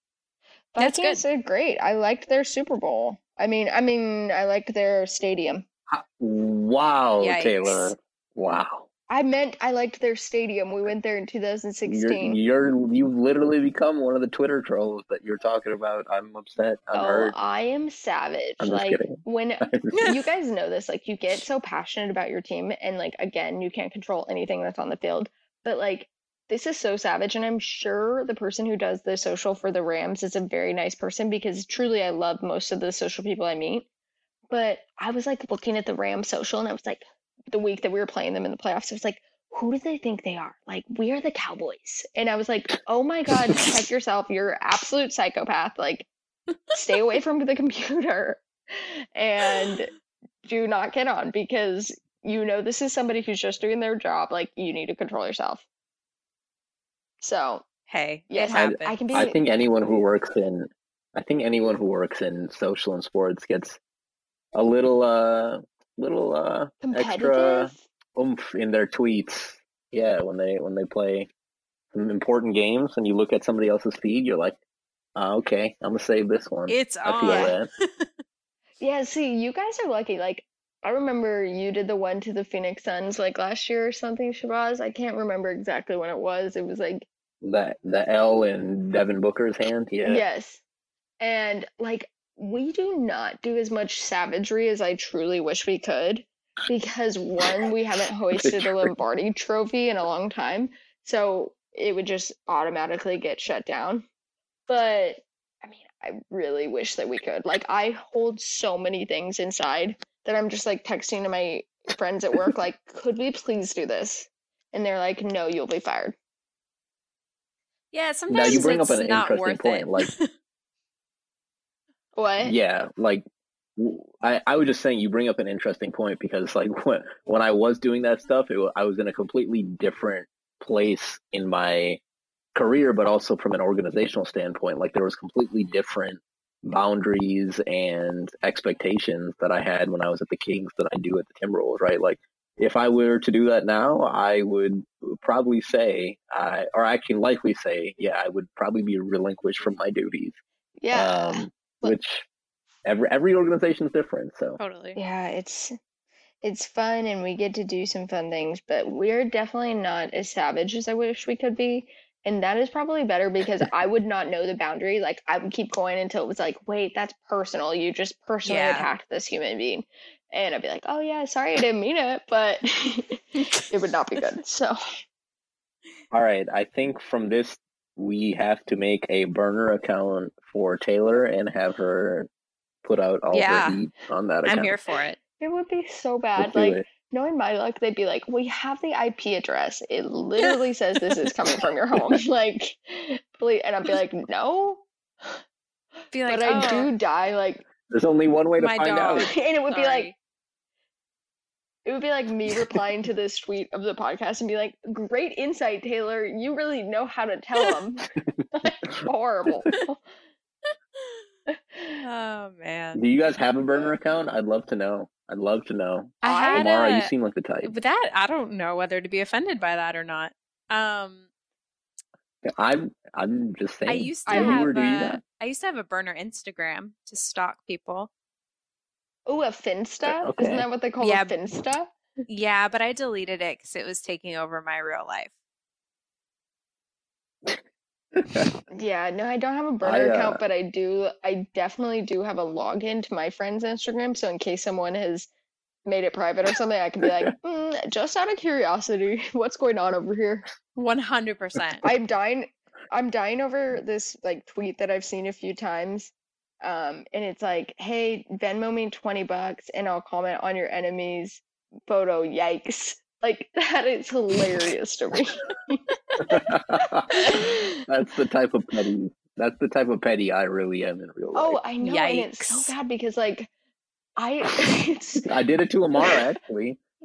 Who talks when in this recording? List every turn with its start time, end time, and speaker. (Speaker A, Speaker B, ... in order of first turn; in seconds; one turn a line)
Speaker A: 0.7-5.6
Speaker B: 0.8-1.2
Speaker C: 5.9-8.9
Speaker B: 7.2-7.9
Speaker A: 9.1-12.4
Speaker C: 11.8-17.3
Speaker A: 16.9-33.9
Speaker C: 18.6-20.1
Speaker A: 34.5-46.1
Speaker A: 46.7-49.9
Speaker A: 50.4-55.6
Speaker A: 57.2-57.6
Speaker B: 57.9-59.0
Speaker A: 58.3-59.4
Speaker C: 58.5-63.8
Speaker C: 64.5-71.3
Speaker A: 66.8-67.8
Speaker C: 71.9-74.6
Speaker C: 75.2-77.7
Speaker B: 76.7-78.1
Speaker A: 77.2-77.5
Speaker A: 78.8-87.1
Speaker C: 87.4-90.2
Speaker A: 90.0-90.6
Speaker A: 91.2-104.0
Speaker C: 98.4-98.9
Speaker A: 104.7-116.2
Speaker B: 117.9-120.3
Speaker C: 118.3-120.1
Speaker A: 122.2-122.5
Speaker C: 122.4-123.2
Speaker C: 123.8-132.0
Speaker C: 132.5-150.4
Speaker A: 150.8-151.9
Speaker C: 150.9-152.2
Speaker C: 152.8-154.6
Speaker B: 154.6-155.0
Speaker A: 154.9-155.7
Speaker A: 156.4-174.8
Speaker B: 168.4-168.9
Speaker C: 176.1-182.3
Speaker C: 182.8-184.7
Speaker B: 183.3-183.8
Speaker B: 184.4-185.2
Speaker A: 185.4-195.4
Speaker C: 186.4-186.8
Speaker B: 196.1-196.9
Speaker A: 196.2-197.6
Speaker C: 197.9-199.3
Speaker B: 198.6-200.1
Speaker A: 199.2-200.1
Speaker A: 201.8-210.0
Speaker A: 211.5-212.0
Speaker B: 212.0-213.0
Speaker C: 212.9-217.7
Speaker B: 216.2-217.1
Speaker A: 216.2-216.7
Speaker B: 217.6-221.2
Speaker C: 222.4-225.2
Speaker B: 223.9-228.1
Speaker A: 224.3-224.6
Speaker A: 229.3-231.9
Speaker C: 230.0-230.7
Speaker B: 231.0-231.3
Speaker B: 232.3-235.3
Speaker C: 238.1-238.5
Speaker A: 238.7-245.3
Speaker C: 239.8-240.4
Speaker A: 245.8-250.5
Speaker B: 250.8-251.8
Speaker A: 251.8-266.5
Speaker C: 266.2-271.6
Speaker A: 267.1-267.6
Speaker A: 271.3-273.5
Speaker B: 271.8-272.7
Speaker A: 274.2-275.3
Speaker C: 275.3-276.8